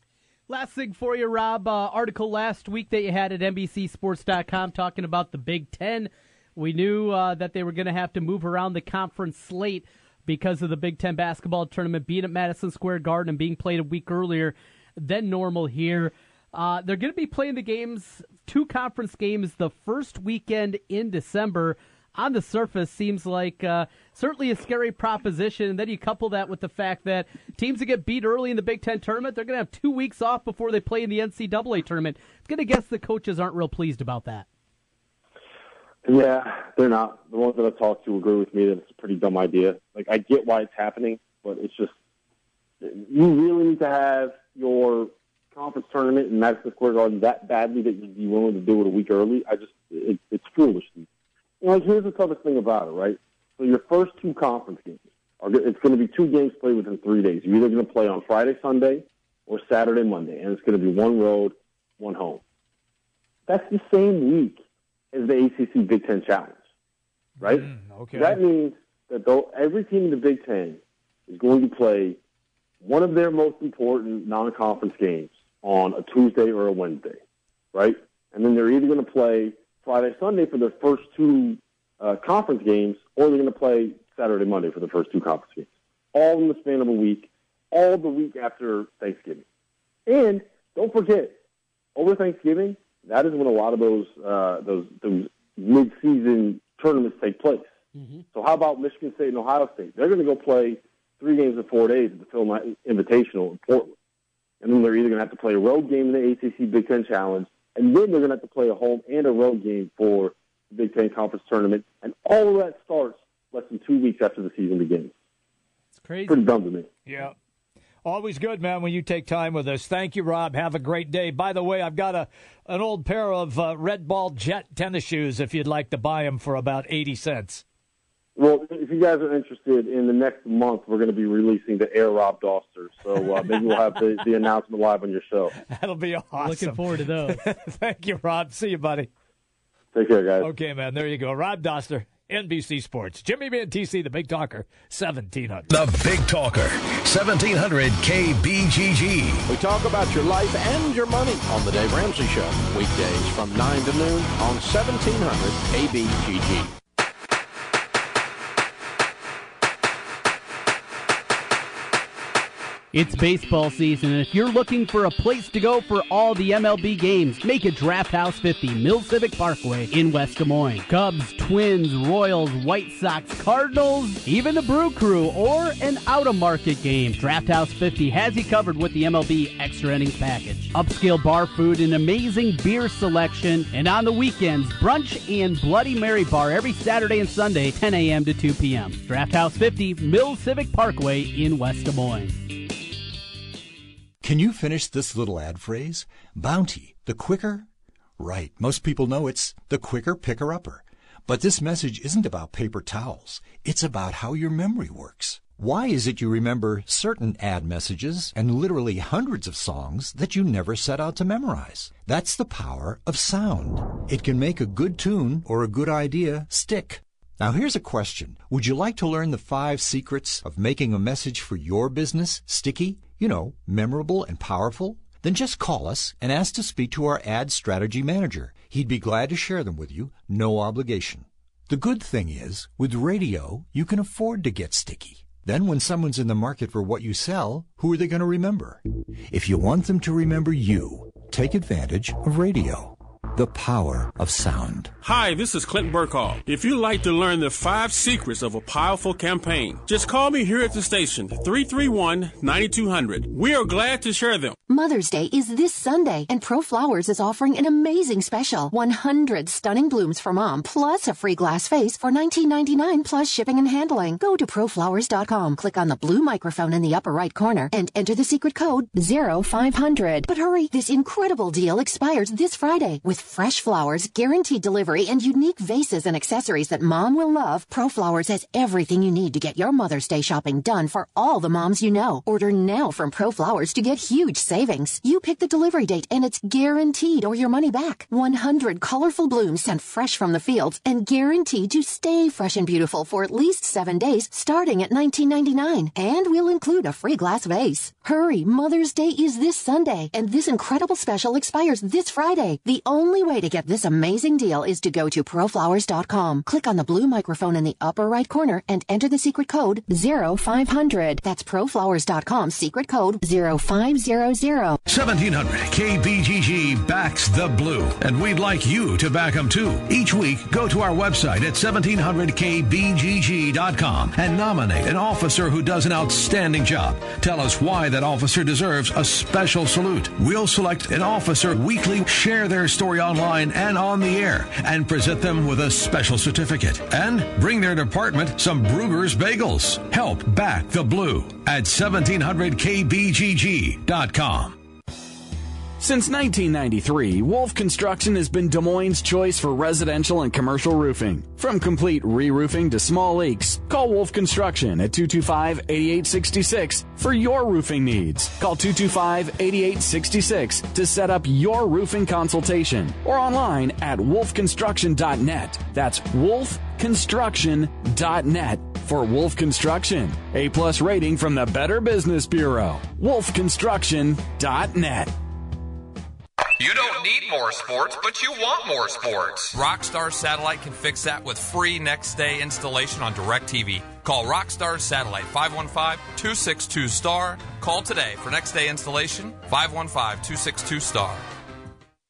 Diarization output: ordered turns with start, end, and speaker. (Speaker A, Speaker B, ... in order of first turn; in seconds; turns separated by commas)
Speaker A: 0.5-34.5, Speaker B: 36.0-41.9, Speaker B: 42.8-51.1, Speaker B: 51.6-62.4, Speaker B: 63.5-66.6, Speaker C: 67.4-68.4, Speaker B: 67.4-72.2, Speaker B: 72.8-77.2, Speaker B: 77.7-89.4, Speaker B: 90.1-91.4, Speaker B: 92.0-97.7, Speaker A: 98.0-98.2, Speaker B: 98.3-103.9, Speaker B: 104.6-115.1, Speaker A: 116.0-116.4, Speaker B: 116.3-116.9, Speaker C: 117.1-117.3, Speaker C: 118.0-127.6, Speaker B: 128.4-135.5, Speaker C: 133.4-134.1, Speaker C: 135.6-139.1, Speaker A: 136.4-137.4, Speaker B: 139.9-140.5, Speaker C: 140.4-145.7, Speaker D: 145.7-149.4, Speaker E: 149.5-156.7, Speaker A: 162.9-192.4, Speaker F: 194.2-197.7, Speaker F: 198.2-244.9, Speaker G: 245.0-254.6, Speaker H: 254.7-314.8, Speaker D: 314.9-344.6, Speaker I: 345.8-375.1, Speaker J: 376.6-391.2